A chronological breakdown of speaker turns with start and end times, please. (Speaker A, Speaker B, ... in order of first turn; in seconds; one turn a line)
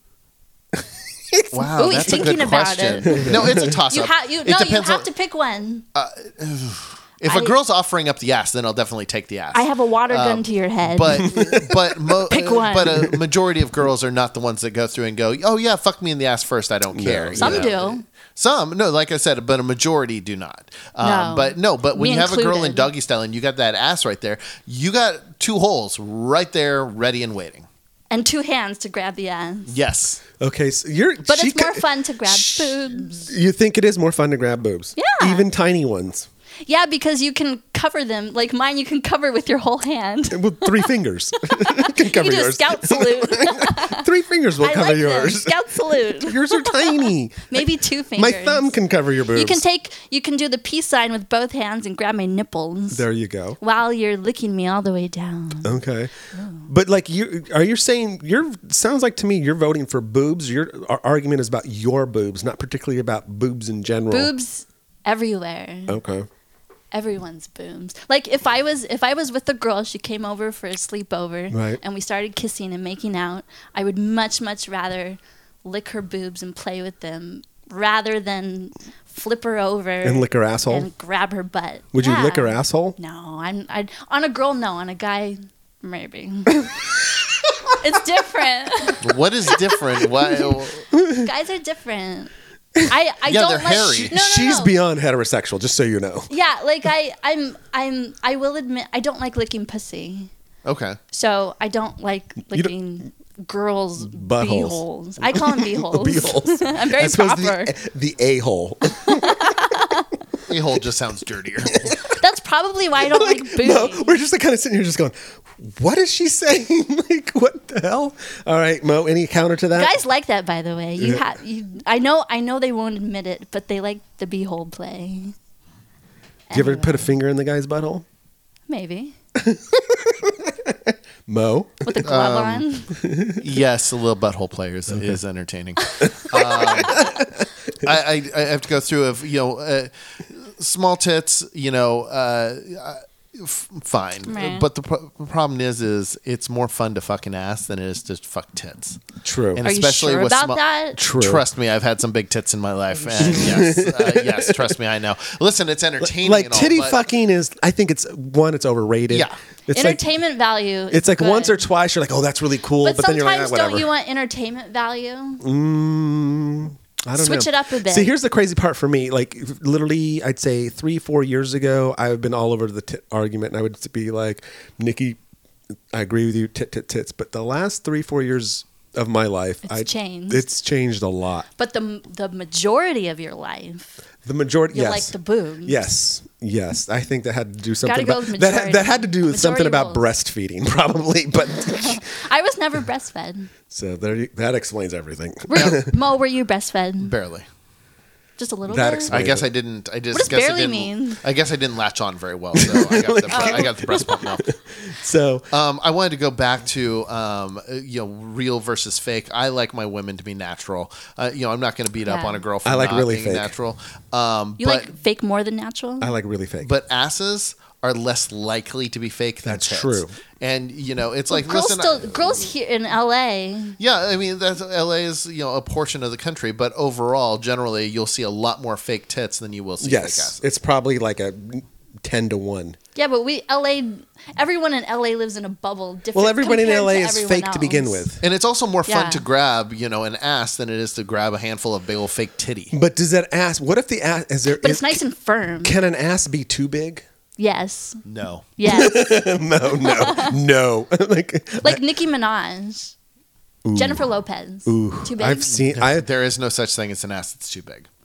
Speaker A: 1.3-1.6
Speaker B: 1.5-5.1
Speaker C: 1.7-5.8
Speaker A: 3.0-3.8
Speaker B: 5.9-27.6
Speaker C: 7.2-7.6
Speaker C: 9.5-11.3
Speaker A: 11.3-11.7
Speaker C: 12.3-13.1
Speaker A: 16.9-17.7
Speaker C: 17.4-18.0
Speaker C: 21.0-22.9
Speaker C: 28.1-29.8
Speaker B: 29.7-30.2
Speaker A: 30.4-36.3
Speaker C: 31.2-33.3
Speaker C: 35.0-35.5
Speaker C: 36.6-44.0
Speaker A: 40.3-49.6
Speaker C: 44.6-53.0
Speaker A: 52.9-53.6
Speaker C: 53.6-55.8
Speaker A: 55.6-56.1
Speaker C: 56.3-56.7
Speaker A: 56.6-64.3
Speaker C: 64.1-66.0
Speaker A: 65.9-66.3
Speaker C: 66.9-86.9
Speaker A: 71.5-71.8
Speaker A: 80.0-80.9
Speaker A: 81.9-83.0
Speaker C: 87.8-89.0
Speaker B: 89.0-90.8
Speaker A: 91.0-91.3
Speaker C: 91.1-92.3
Speaker C: 92.9-94.8
Speaker B: 93.2-94.1
Speaker A: 93.8-96.3
Speaker C: 96.3-100.3
Speaker B: 100.6-101.0
Speaker C: 101.1-107.7
Speaker A: 104.0-109.5
Speaker C: 109.0-110.1
Speaker B: 110.5-112.0
Speaker A: 111.6-112.0
Speaker C: 112.0-114.2
Speaker A: 113.0-120.0
Speaker C: 119.8-125.3
Speaker A: 121.0-121.2
Speaker C: 126.5-127.2
Speaker A: 126.5-128.0
Speaker C: 128.7-129.1
Speaker A: 129.4-132.0
Speaker C: 131.8-132.9
Speaker B: 132.0-132.7
Speaker A: 132.9-133.4
Speaker B: 133.4-137.2
Speaker A: 134.9-135.2
Speaker C: 135.9-136.9
Speaker A: 136.0-137.4
Speaker B: 137.8-157.0
Speaker C: 144.2-144.7
Speaker A: 149.2-149.6
Speaker C: 149.6-151.0
Speaker A: 150.9-151.4
Speaker A: 153.1-154.7
Speaker A: 156.0-160.0
Speaker B: 159.1-159.3
Speaker C: 159.7-161.7
Speaker A: 160.9-163.9
Speaker C: 162.8-165.4
Speaker A: 165.4-175.2
Speaker C: 167.2-168.1
Speaker A: 175.9-181.5
Speaker C: 179.6-180.4
Speaker C: 181.6-184.0
Speaker A: 184.2-192.0
Speaker C: 184.7-185.8
Speaker C: 187.8-190.1
Speaker C: 191.5-193.5
Speaker A: 193.7-196.0
Speaker C: 195.5-197.1
Speaker B: 195.5-195.8
Speaker B: 197.0-197.4
Speaker C: 198.4-199.2
Speaker A: 198.7-199.5
Speaker B: 199.1-204.5
Speaker C: 200.1-201.2
Speaker A: 202.5-205.5
Speaker C: 203.3-204.1
Speaker B: 205.5-214.9
Speaker C: 212.0-212.4
Speaker A: 212.6-213.5
Speaker C: 214.6-216.2
Speaker A: 216.0-216.7
Speaker B: 216.6-222.5
Speaker A: 219.4-220.1
Speaker C: 221.3-223.8
Speaker B: 223.8-230.4
Speaker A: 229.8-232.8
Speaker C: 232.9-238.1
Speaker A: 236.1-238.2
Speaker B: 238.2-242.7
Speaker C: 238.9-239.2
Speaker A: 242.7-245.0
Speaker C: 244.5-245.7
Speaker A: 245.6-247.0
Speaker C: 247.4-248.0
Speaker B: 248.0-248.5
Speaker C: 248.6-250.4
Speaker A: 248.7-251.8
Speaker C: 251.6-252.9
Speaker A: 253.6-256.1
Speaker C: 253.7-255.6
Speaker B: 255.5-257.9